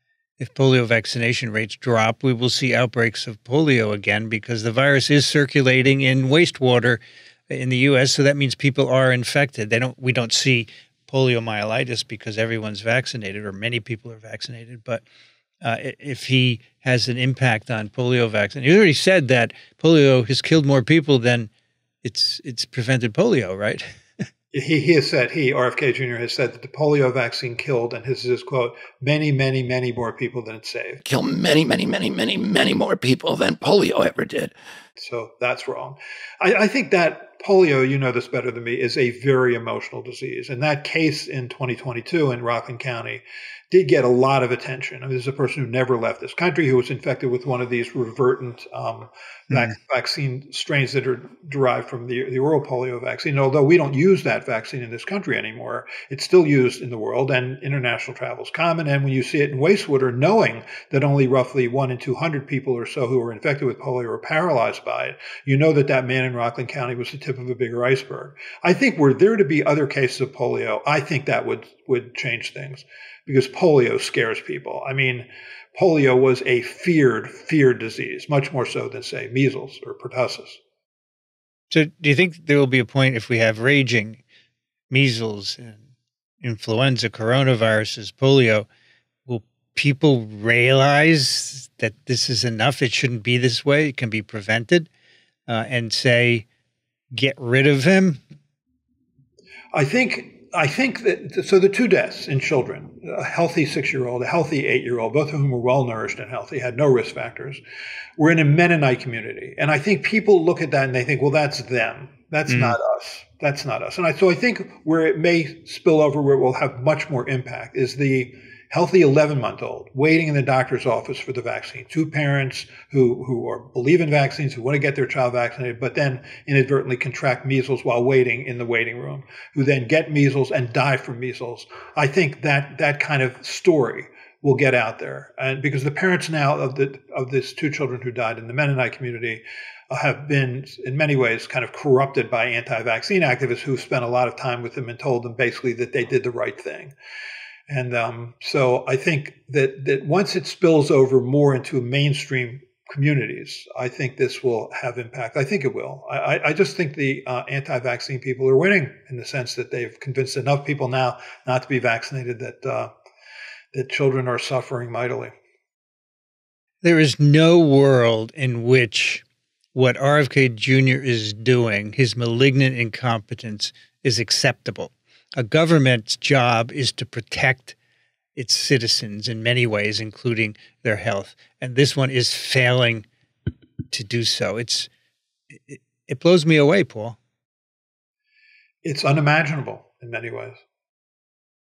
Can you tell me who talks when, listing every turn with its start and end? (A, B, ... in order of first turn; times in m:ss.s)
0:00.4-0:15.0 A
0:15.6-0:21.5 A
0:22.0-0:23.8 A
0:24.5-0:31.0 B
0:31.0-0:34.5 C
0:35.0-1:20.6 B
1:21.7-1:24.2 A
1:24.9-1:25.8 A
1:26.4-1:28.7 A
1:29.2-1:34.9 A
1:35.5-1:36.4 A
1:37.1-1:38.2 A
1:39.7-1:47.6 B
1:48.2-2:26.9 B
1:52.5-1:52.8 A
2:27.7-2:42.9 B
2:43.7-2:45.3 B
2:46.8-2:57.8 A
2:58.3-3:03.0 A
3:03.9-3:04.9 A
3:05.5-3:07.2 A
3:08.8-3:10.6 B